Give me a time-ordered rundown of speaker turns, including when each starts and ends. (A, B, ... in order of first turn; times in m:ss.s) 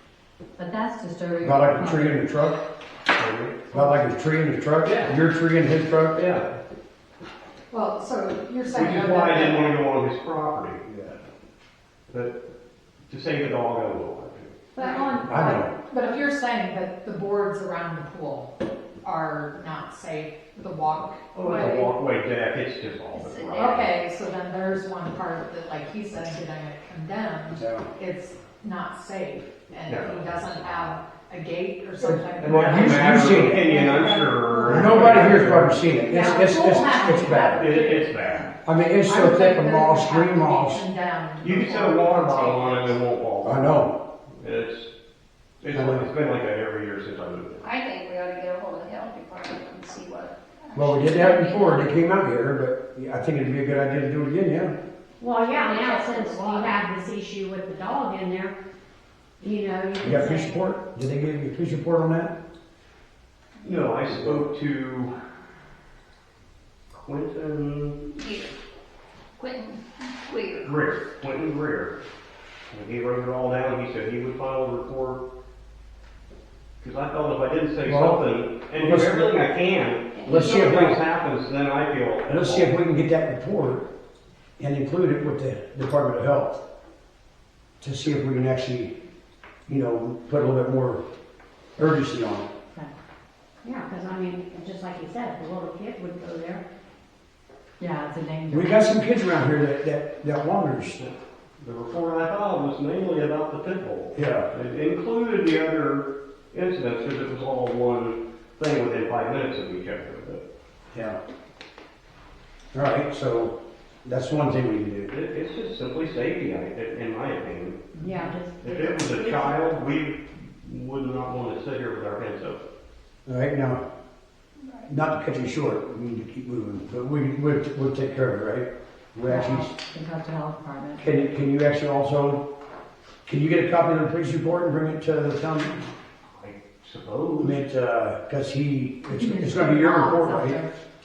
0:00.6-0:02.2 A
0:01.4-0:02.6 B
0:03.2-0:03.6 C
0:03.7-0:06.2 B
0:04.8-0:05.2 C
0:06.1-0:06.5 C
0:07.7-0:09.8 D
0:08.7-0:10.8 C
0:10.8-0:11.2 B
0:12.1-0:12.3 C
0:13.1-0:14.6 C
0:14.8-0:15.6 A
0:14.8-0:21.4 D
0:15.3-0:15.7 B
0:21.3-0:23.9 C
0:21.4-0:21.7 A
0:23.1-0:23.9 E
0:23.5-0:38.1 D
0:27.5-0:27.9 B
0:29.9-0:30.8 C
0:32.0-0:33.7 B
0:32.4-0:35.8 C
0:34.6-0:37.7 B
0:37.5-0:38.5 C
0:38.6-0:40.8 B
0:39.0-0:43.0 D
0:41.4-0:43.8 C
0:43.4-0:43.9 B
0:44.4-0:44.9 C
0:45.6-0:47.7 C
0:45.7-0:46.0 B
0:47.6-0:51.9 E
0:50.7-0:54.7 B
0:55.2-0:58.5 F
0:55.4-0:56.8 E
0:59.4-1:00.6 F
1:00.0-1:02.3 B
1:03.6-1:05.1 C
1:04.1-1:04.4 B
1:06.9-1:08.0 C
1:08.1-1:08.5 E
1:09.4-1:10.9 E
1:10.6-1:11.9 C
1:12.7-1:15.2 C
1:16.8-1:22.7 C
1:17.8-1:19.3 B
1:20.2-1:20.9 E
1:20.2-1:21.0 B
1:22.3-1:23.8 B
1:24.6-1:26.6 B
1:27.8-1:28.9 B
1:29.7-1:31.0 B
1:31.8-1:32.5 B
1:33.6-1:36.6 F
1:37.8-1:38.7 A
1:38.5-1:41.0 B
1:41.0-1:50.4 C
1:44.1-1:44.5 B
1:50.9-1:51.2 B
1:52.7-1:55.1 B
1:55.1-1:57.8 C
1:58.0-1:59.5 F
1:58.6-2:02.6 C
2:03.2-2:03.8 B
2:04.9-2:09.7 B
2:09.3-2:11.0 A
2:11.0-2:12.4 B
2:13.2-2:15.8 B
2:16.3-2:17.6 C
2:17.4-2:20.6 B
2:19.1-2:20.7 A